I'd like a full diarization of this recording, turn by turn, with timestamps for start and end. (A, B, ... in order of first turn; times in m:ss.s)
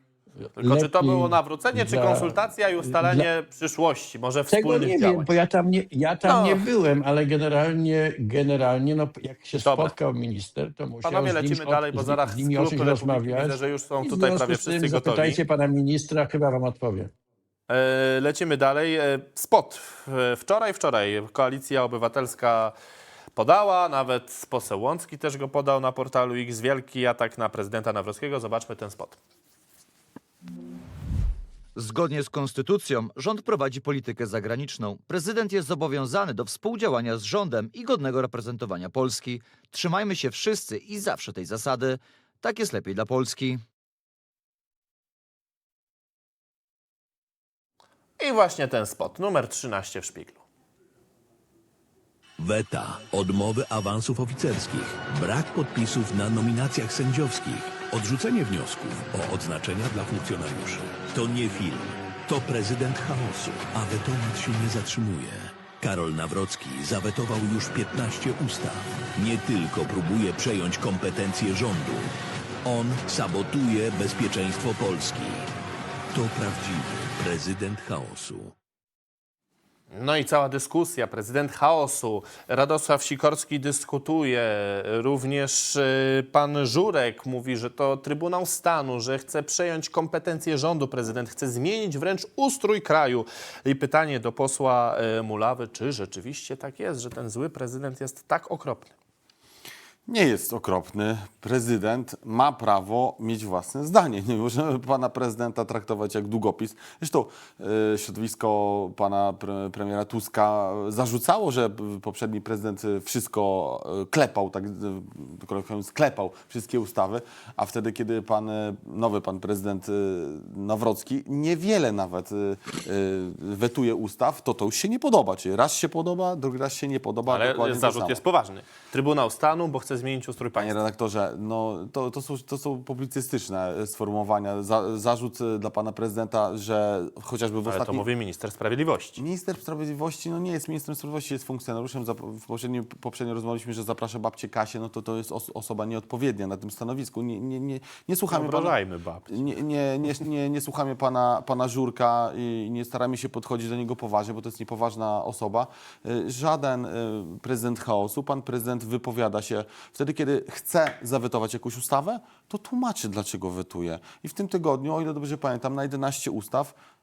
0:00.4-0:03.3 A
0:00.6-0:05.3 B
0:04.5-0:17.1 A
0:06.2-0:06.7 B
0:09.6-0:09.9 B
0:11.0-0:15.4 B
0:17.7-0:22.7 B
0:23.3-0:29.2 B
0:31.8-0:43.6 C
0:48.2-0:50.4 B
0:52.4-1:12.1 D
1:12.6-1:15.4 D
1:16.1-1:18.5 D
1:19.9-1:38.9 B
1:40.1-2:08.2 E
2:07.3-2:10.8 B
2:10.5-2:18.1 E
2:17.6-2:19.2 B
2:19.2-2:46.7 E
2:28.3-2:29.3 B